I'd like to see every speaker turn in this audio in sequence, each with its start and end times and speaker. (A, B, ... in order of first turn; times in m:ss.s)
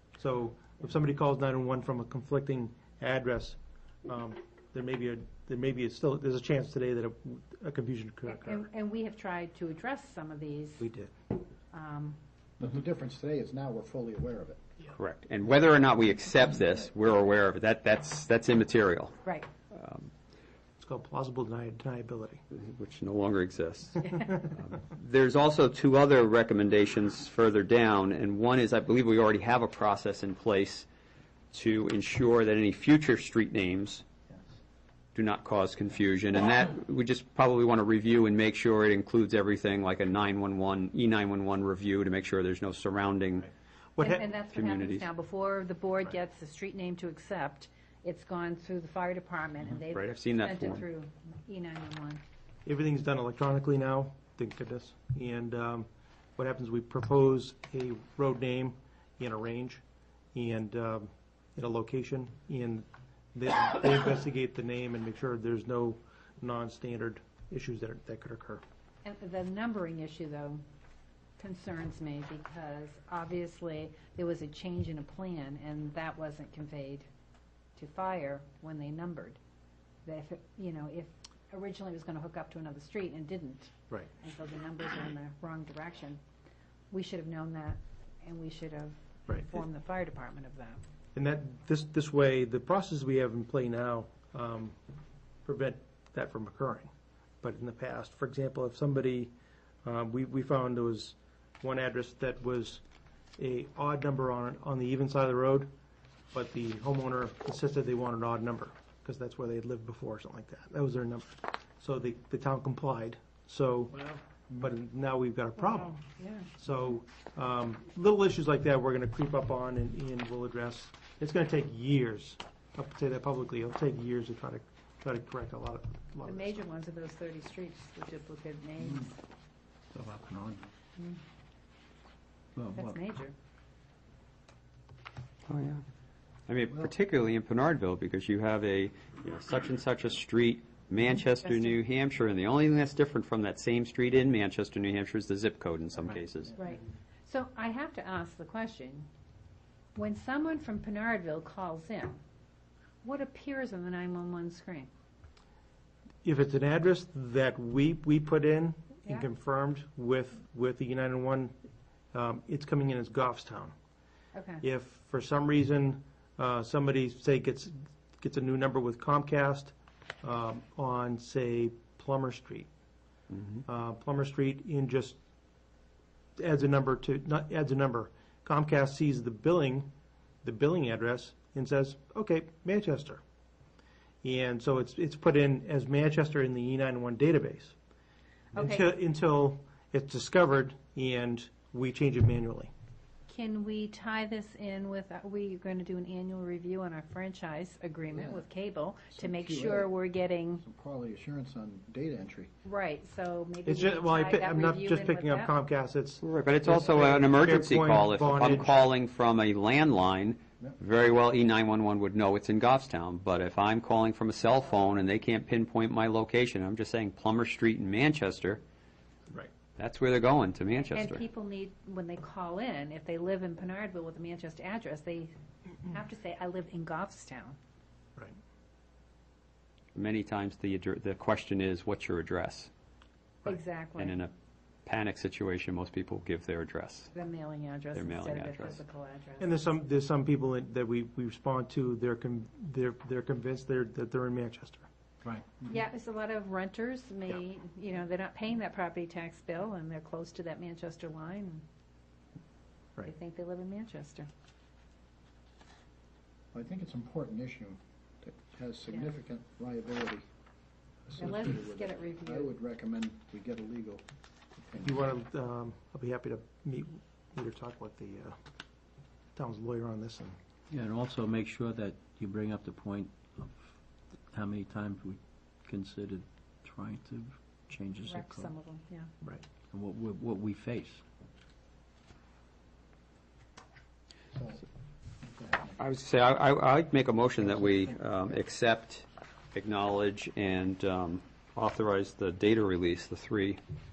0:00.2-0:08.6 A
0:08.3-0:10.8 B
0:10.8-0:11.1 A
0:11.7-0:12.2 B
0:12.6-0:14.7 C
0:14.9-0:19.2 D
0:19.7-0:20.1 D
0:20.8-0:22.4 A
0:22.5-0:30.9 D
0:31.5-0:34.0 D
0:35.2-0:43.5 D
0:44.0-0:44.2 A
0:44.0-0:52.2 B
0:44.5-0:45.1 D
0:49.9-0:50.8 D
0:52.7-0:59.8 A
1:00.3-1:08.6 A
1:09.0-1:10.6 B
1:11.4-1:17.1 B
1:17.8-1:19.4 B
1:20.0-1:26.2 B
1:26.9-1:30.8 B
1:29.3-1:29.6 A
1:31.2-1:34.8 A
1:35.4-1:36.9 A
1:37.4-1:39.3 A
1:39.8-1:42.8 A
1:43.4-1:45.7 A
1:46.3-1:56.0 A
1:55.6-1:56.5 B
1:56.6-2:06.6 A
2:06.2-2:09.2 B
2:09.9-2:10.7 E
2:12.6-2:13.0 E
2:12.8-2:13.3 B
2:15.5-2:15.8 D
2:16.5-2:26.6 D
2:21.4-2:21.8 B
2:26.6-2:29.1 B
2:30.0-2:32.2 B
2:33.0-2:34.9 B
2:36.2-2:41.5 A
2:42.1-2:43.7 A
2:44.3-2:44.6 B
2:44.6-2:52.7 A
2:53.6-2:55.2 A
2:56.4-2:59.9 A
3:00.4-3:03.2 A
3:04.2-3:07.8 A
3:08.5-3:08.9 B
3:08.6-3:12.7 A
3:13.3-3:20.6 B
3:18.1-3:18.4 C
3:19.2-3:19.9 C
3:20.6-3:22.5 C
3:22.6-3:25.5 B
3:23.6-3:28.9 A
3:26.2-3:38.6 D
3:39.8-3:41.2 D
3:40.8-3:45.3 B
3:45.8-3:47.6 B
3:50.0-3:52.7 D
3:53.4-3:54.2 B
3:54.0-3:54.3 D
3:54.9-3:57.1 D
3:57.1-3:59.6 B
3:57.9-3:58.8 D
3:59.4-4:04.9 A
4:05.6-4:11.6 B
4:13.0-4:14.3 B
4:16.5-4:20.3 C
4:21.1-4:24.0 C
4:21.2-4:22.5 B
4:24.6-4:25.0 C
4:24.8-4:28.4 A
4:29.4-4:30.4 A
4:30.7-4:33.8 E
4:34.3-4:38.5 E
4:38.0-4:39.1 B
4:39.7-4:41.0 E
4:44.3-4:44.6 C
4:45.2-4:45.8 C
4:45.8-4:53.6 D